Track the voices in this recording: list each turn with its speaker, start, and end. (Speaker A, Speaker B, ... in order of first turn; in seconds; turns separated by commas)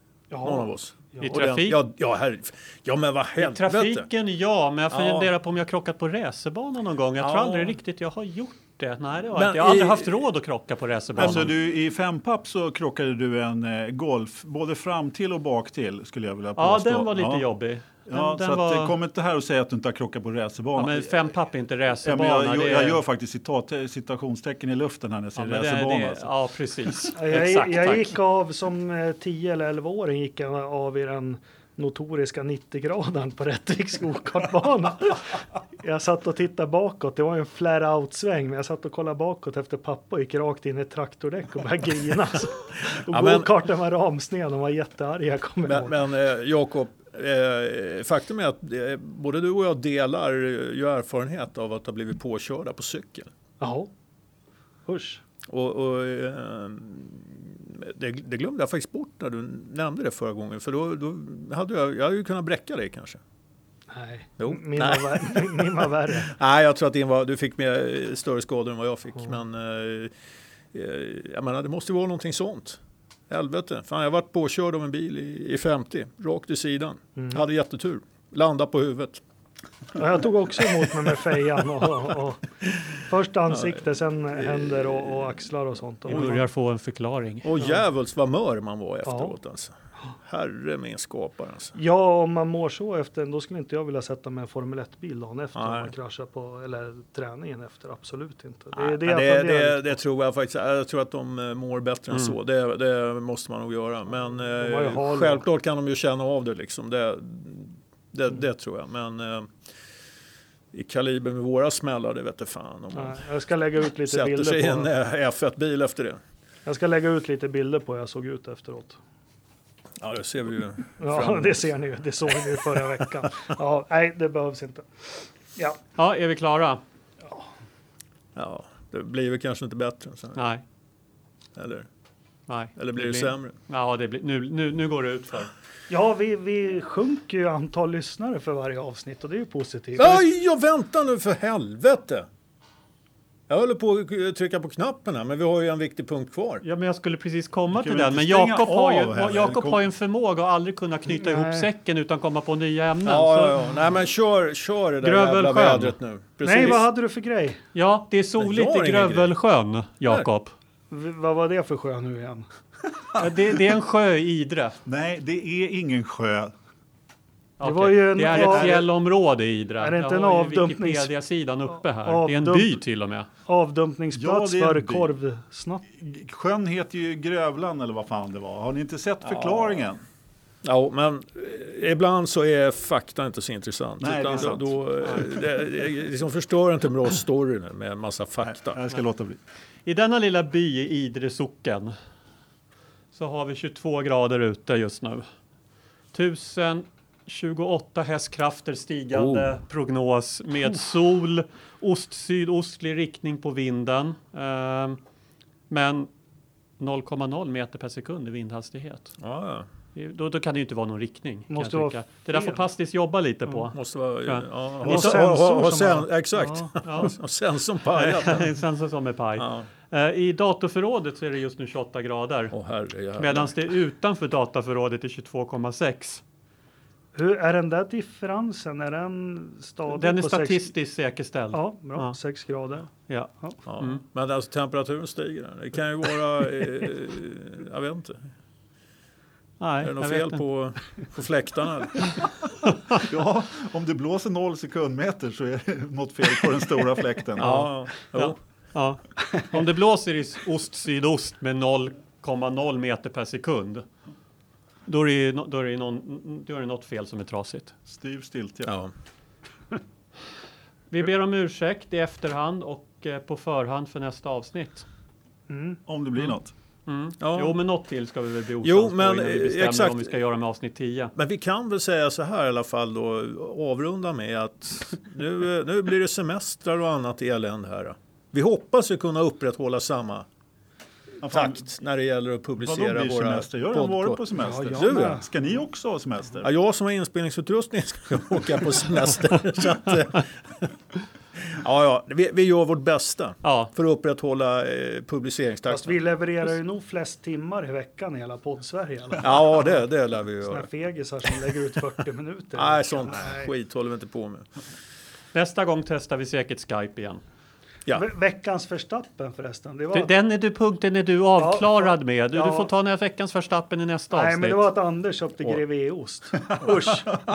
Speaker A: 0.3-1.5, Speaker B: 0.4-4.1, Speaker C: 1.2-1.8, Speaker C: 3.4-11.5, Speaker B: 4.9-5.3, Speaker B: 7.2-7.8, Speaker B: 9.3-10.1, Speaker D: 11.2-17.4, Speaker B: 11.2-11.5, Speaker C: 16.6-19.0, Speaker D: 18.1-21.2, Speaker C: 20.8-23.0, Speaker D: 22.0-26.3, Speaker C: 25.4-28.2, Speaker A: 27.1-46.0, Speaker B: 42.9-43.5, Speaker B: 45.6-53.3, Speaker A: 53.6-53.9, Speaker A: 54.9-55.2, Speaker B: 55.5-63.2, Speaker A: 63.9-66.3, Speaker B: 64.4-70.1, Speaker B: 70.7-79.2, Speaker A: 77.2-77.4, Speaker A: 80.0-86.4, Speaker B: 83.5-85.4, Speaker C: 86.0-87.5, Speaker B: 87.5-91.8, Speaker A: 89.1-89.4, Speaker A: 91.8-99.8, Speaker B: 95.6-95.9, Speaker B: 98.7-109.6, Speaker A: 104.6-105.4, Speaker B: 110.7-113.2, Speaker A: 112.9-114.9, Speaker B: 114.1-116.2, Speaker A: 116.7-119.0, Speaker B: 120.0-121.7, Speaker A: 121.0-125.8, Speaker B: 123.0-123.3, Speaker C: 126.0-126.8, Speaker B: 128.4-130.4, Speaker C: 130.4-130.6, Speaker B: 131.6-131.9, Speaker C: 132.5-135.5, Speaker B: 132.8-133.6, Speaker A: 135.9-140.3, Speaker B: 140.0-142.3, Speaker B: 143.5-146.6, Speaker C: 146.6-153.8, Speaker D: 147.7-149.8, Speaker A: 151.1-151.7, Speaker B: 153.0-156.8, Speaker C: 155.0-155.9, Speaker A: 156.4-157.6, Speaker C: 157.7-160.5, Speaker B: 158.4-159.3, Speaker A: 160.9-162.5, Speaker C: 163.2-164.8, Speaker D: 164.9-166.5, Speaker C: 167.6-173.3, Speaker A: 167.6-168.9, Speaker D: 168.2-168.9, Speaker A: 169.8-171.1, Speaker A: 172.0-172.8, Speaker A: 173.5-175.8, Speaker D: 174.1-175.1, Speaker D: 176.0-180.0, Speaker B: 179.2-179.9, Speaker B: 180.6-188.8, Speaker D: 184.0-184.8, Speaker D: 188.4-189.4, Speaker C: 189.8-191.9, Speaker C: 193.1-195.3, Speaker C: 196.1-205.0, Speaker B: 199.2-199.5, Speaker C: 205.7-206.1, Speaker C: 206.8-209.1, Speaker B: 209.2-209.7, Speaker C: 209.9-215.2, Speaker A: 211.5-212.6, Speaker B: 213.7-218.5, Speaker A: 214.8-217.1, Speaker C: 216.8-217.2, Speaker C: 217.9-222.5, Speaker B: 219.4-219.7, Speaker B: 222.5-223.6, Speaker C: 223.2-226.2, Speaker A: 227.2-230.7, Speaker C: 229.9-232.2, Speaker A: 231.5-232.9, Speaker C: 233.1-234.0, Speaker B: 233.7-238.3, Speaker C: 239.6-240.4, Speaker B: 239.8-242.2, Speaker D: 242.9-247.7, Speaker B: 247.4-248.4, Speaker C: 247.4-253.9, Speaker C: 254.9-257.8, Speaker D: 257.9-258.7, Speaker B: 258.7-258.9, Speaker C: 260.9-264.9, Speaker A: 265.5-265.8, Speaker D: 265.9-266.5, Speaker C: 266.9-271.1, Speaker B: 267.2-267.6, Speaker B: 268.6-270.1, Speaker B: 271.1-280.3, Speaker D: 281.2-281.6, Speaker B: 281.2-284.2, Speaker D: 282.6-286.5, Speaker A: 284.4-285.3, Speaker B: 284.8-285.1, Speaker B: 286.4-290.7, Speaker B: 291.5-296.0, Speaker C: 293.4-293.7, Speaker A: 295.7-299.8, Speaker B: 299.2-300.7, Speaker A: 300.4-303.5, Speaker B: 302.6-304.5, Speaker C: 305.3-307.2, Speaker A: 307.9-310.1, Speaker C: 309.9-314.7, Speaker A: 311.4-312.7, Speaker A: 314.1-317.2, Speaker B: 316.6-317.0